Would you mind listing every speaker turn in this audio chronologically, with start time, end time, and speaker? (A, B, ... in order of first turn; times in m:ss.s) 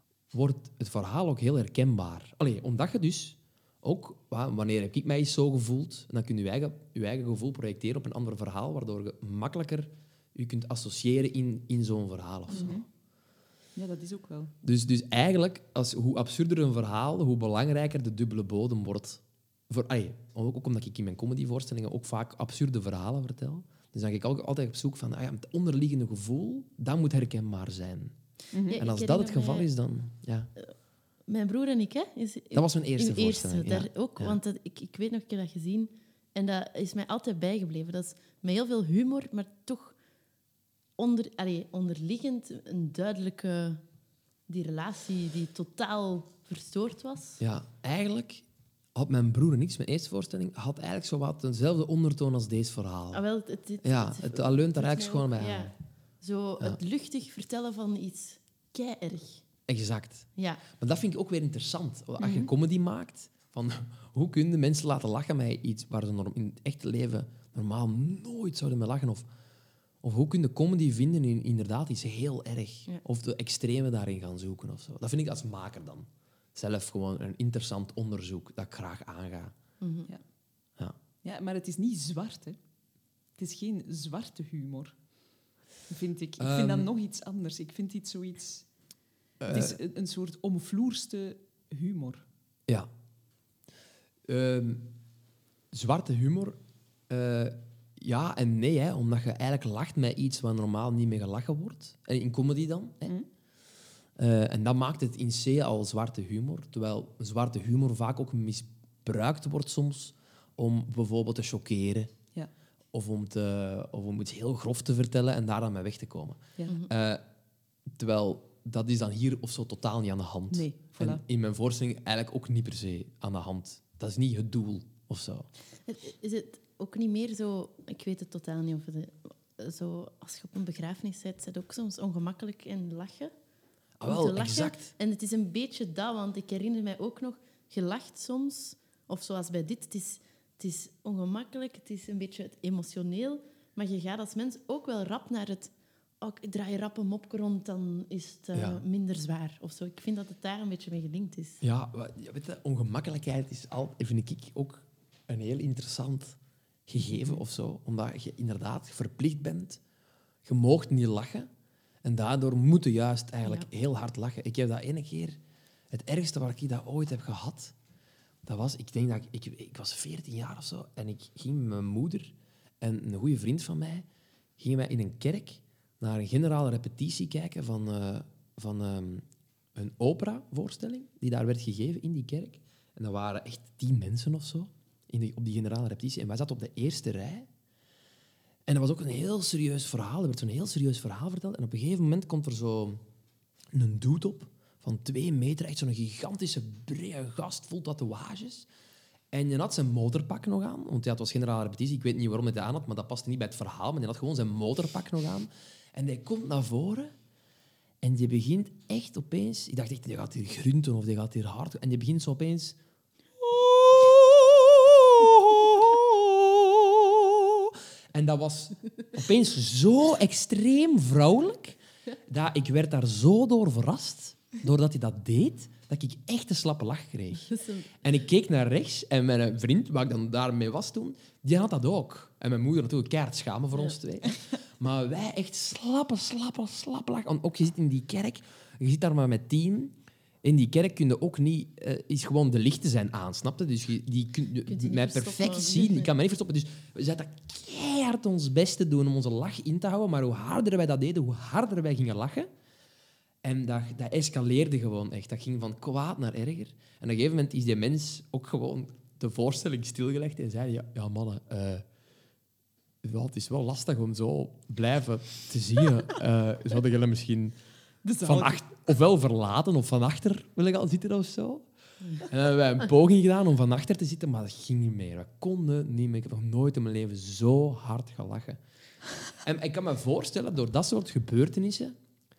0:00.3-0:12.8 A
0:12.5-0:12.8 B
0:13.8-0:14.5 B
0:14.6-0:28.2 A
0:28.5-0:28.8 B
0:28.7-0:29.7 C
0:28.7-0:30.5 A
0:31.3-0:40.0 C
0:32.5-0:34.4 A
0:41.0-0:43.8 C
0:44.5-0:47.4 C
0:47.4-0:48.4 A
0:48.9-0:53.2 A
0:53.1-0:59.4 C
0:53.8-0:55.7 A
0:59.7-1:09.2 A
1:00.4-1:00.6 C
1:02.2-1:02.5 C
1:10.0-1:19.5 A
1:19.8-1:20.1 C
1:21.2-1:22.6 B
1:23.4-1:25.0 B
1:25.9-1:28.7 B
1:26.4-1:26.9 A
1:29.4-1:29.8 A
1:29.5-1:32.2 B
1:34.3-1:34.9 A
1:35.7-1:36.6 A
1:37.1-1:43.1 A
1:44.2-1:52.1 A
1:52.9-1:57.2 A
1:57.9-2:05.5 A
2:00.5-2:01.2 B
2:05.9-2:13.3 C
2:14.0-2:14.9 A
2:14.0-2:31.6 C
2:28.5-2:28.8 A
2:31.6-2:39.8 A
2:40.4-2:41.5 A
2:42.0-2:45.4 A
2:45.9-2:47.7 A
2:48.4-2:54.0 A
2:54.6-3:07.5 A
3:08.7-3:13.0 A
3:13.7-3:18.7 A
3:19.3-3:27.1 A
3:28.0-3:32.8 A
3:33.4-4:12.5 A
3:47.4-3:47.9 C
4:04.7-4:06.1 C
4:13.4-4:21.8 A
4:23.0-4:27.6 A
4:28.0-4:28.6 B
4:28.2-4:31.7 A
4:32.2-4:38.6 A
4:39.4-4:41.9 A